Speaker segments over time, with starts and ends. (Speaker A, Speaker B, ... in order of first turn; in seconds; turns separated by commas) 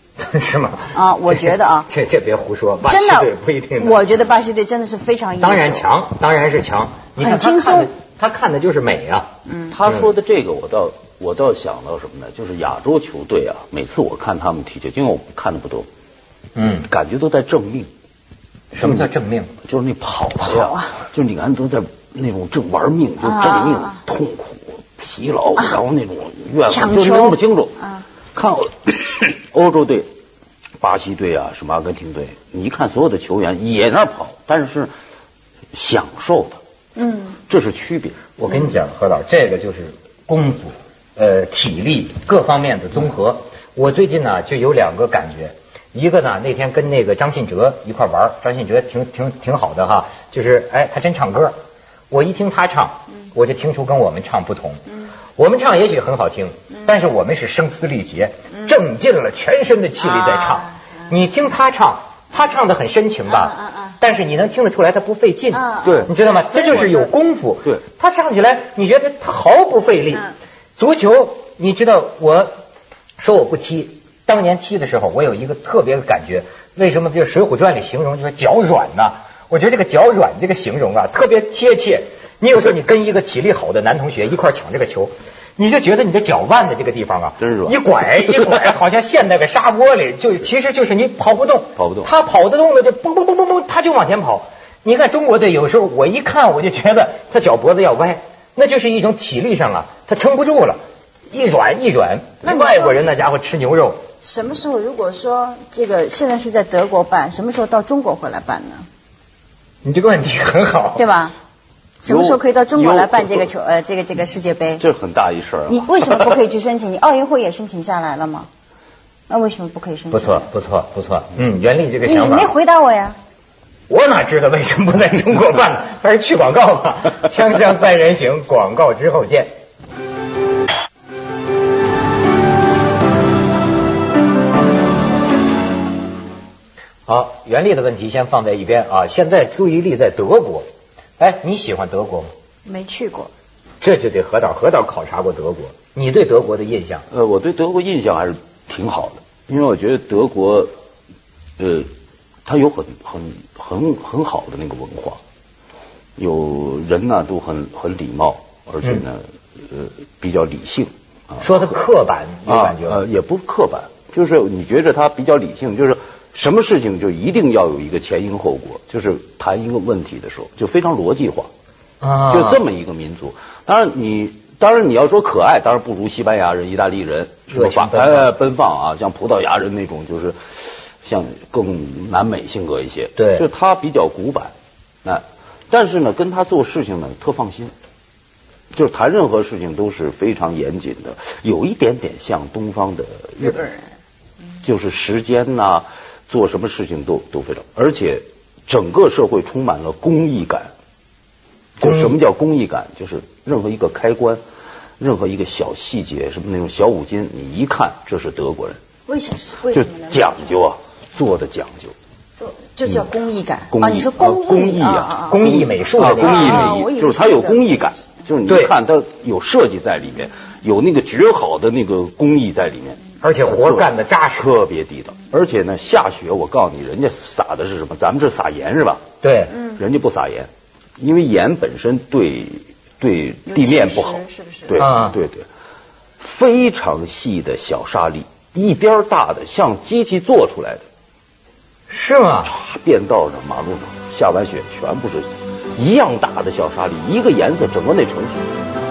Speaker A: 0.2-4.1, Speaker B: 0.9-1.9, Speaker B: 2.9-5.9, Speaker A: 5.4-9.3, Speaker B: 7.2-7.9, Speaker B: 9.4-9.8, Speaker C: 9.7-15.9, Speaker A: 16.5-16.9, Speaker C: 16.9-17.9, Speaker A: 18.7-19.5, Speaker C: 18.8-19.1, Speaker C: 19.7-27.8, Speaker B: 20.4-21.0, Speaker B: 23.2-24.0, Speaker B: 25.6-25.8, Speaker B: 26.6-28.1, Speaker C: 28.3-30.1, Speaker C: 30.8-34.9, Speaker C: 35.7-36.6, Speaker B: 37.0-37.4, Speaker C: 37.5-38.2, Speaker A: 38.4-51.5, Speaker A: 52.1-54.8, Speaker A: 55.4-72.5, Speaker B: 60.0-60.8, Speaker B: 63.3-64.0, Speaker B: 65.5-67.1, Speaker C: 65.8-66.1, Speaker A: 73.2-100.8, Speaker C: 87.4-87.8, Speaker C: 91.8-92.1, Speaker A: 101.3-104.0, Speaker B: 102.4-103.0, Speaker B: 104.2-108.8, Speaker A: 109.8-111.0, Speaker B: 111.0-111.3, Speaker B: 112.0-114.8, Speaker C: 112.0-113.5, Speaker C: 114.8-116.4, Speaker B: 115.7-118.5, Speaker B: 119.3-120.5, Speaker A: 120.1-122.5, Speaker B: 122.0-123.2, Speaker A: 123.9-129.5, Speaker A: 137.1-140.7, Speaker A: 141.2-142.3, Speaker B: 142.7-143.3, Speaker A: 143.8-147.0, Speaker C: 147.1-150.7, Speaker C: 151.6-151.9, Speaker C: 152.4-155.2, Speaker C: 156.2-161.7, Speaker A: 161.4-163.0, Speaker C: 162.5-171.5, Speaker A: 172.0-172.6, Speaker C: 172.3-184.5, Speaker A: 177.5-178.3, Speaker A: 183.2-183.4, Speaker C: 185.0-187.7, Speaker C: 188.7-193.7, Speaker C: 194.6-200.7, Speaker C: 201.8-204.4, Speaker A: 201.8-202.2, Speaker C: 205.0-208.8, Speaker B: 209.1-210.6, Speaker C: 209.7-211.9, Speaker B: 212.4-215.4, Speaker C: 213.7-229.0, Speaker A: 215.3-216.7, Speaker B: 216.1-218.1, Speaker A: 218.5-218.7, Speaker A: 223.2-224.5, Speaker A: 229.2-229.6, Speaker C: 229.6-235.4, Speaker B: 233.4-234.9, Speaker A: 234.8-235.2, Speaker C: 236.2-240.8, Speaker A: 241.9-242.5, Speaker C: 242.4-248.5